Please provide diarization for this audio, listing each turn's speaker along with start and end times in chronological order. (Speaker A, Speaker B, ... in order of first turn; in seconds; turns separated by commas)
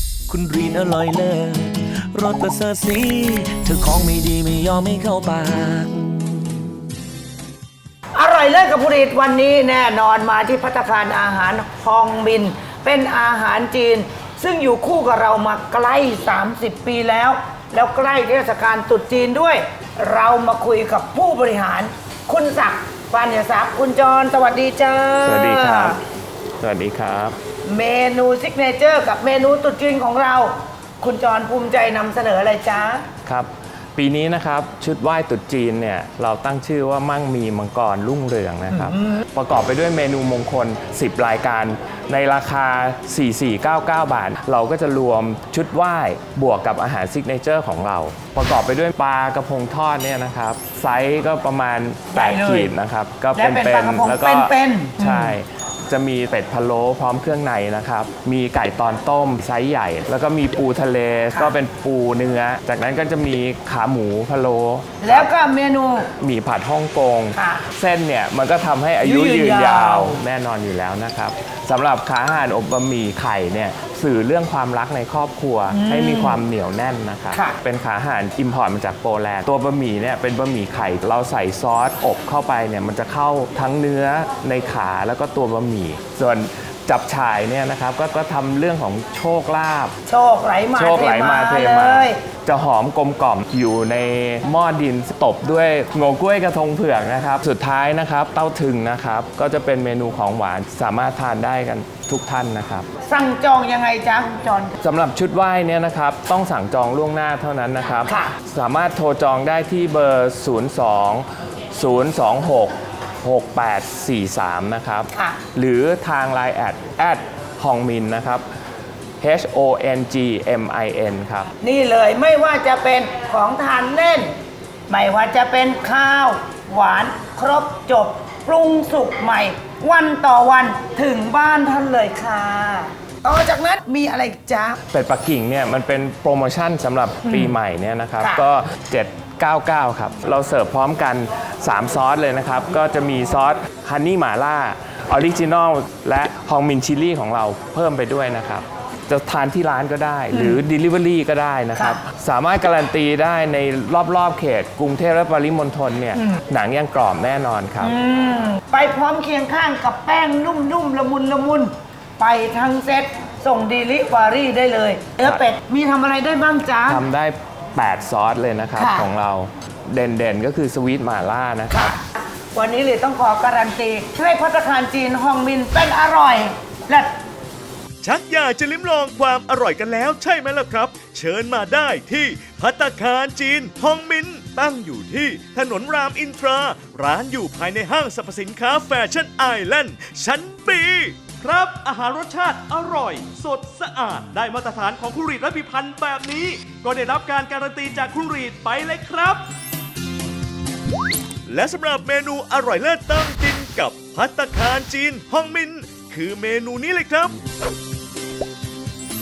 Speaker A: 0.3-6.6, Speaker B: 8.1-26.0, Speaker C: 25.2-26.0, Speaker C: 26.6-27.4, Speaker B: 27.6-33.0, Speaker C: 33.2-65.3, Speaker B: 38.7-39.0, Speaker B: 52.1-52.7, Speaker B: 53.4-55.4, Speaker B: 65.0-66.1, Speaker C: 66.2-89.9, Speaker B: 67.3-67.7, Speaker B: 69.0-70.2, Speaker B: 75.7-76.4, Speaker B: 77.3-77.6, Speaker B: 90.1-92.2, Speaker C: 90.7-102.9, Speaker B: 103.0-104.8, Speaker C: 104.8-118.4, Speaker B: 108.1-108.3, Speaker C: 119.2-121.5, Speaker B: 121.6-124.3, Speaker B: 124.9-134.8, Speaker C: 134.9-157.9, Speaker B: 137.3-137.5, Speaker B: 138.2-138.4, Speaker B: 150.3-150.6, Speaker B: 151.8-152.0, Speaker B: 157.8-167.0, Speaker C: 166.9-171.9, Speaker B: 168.8-169.1, Speaker B: 171.7-177.1, Speaker D: 178.0-199.4, Speaker D: 201.5-207.3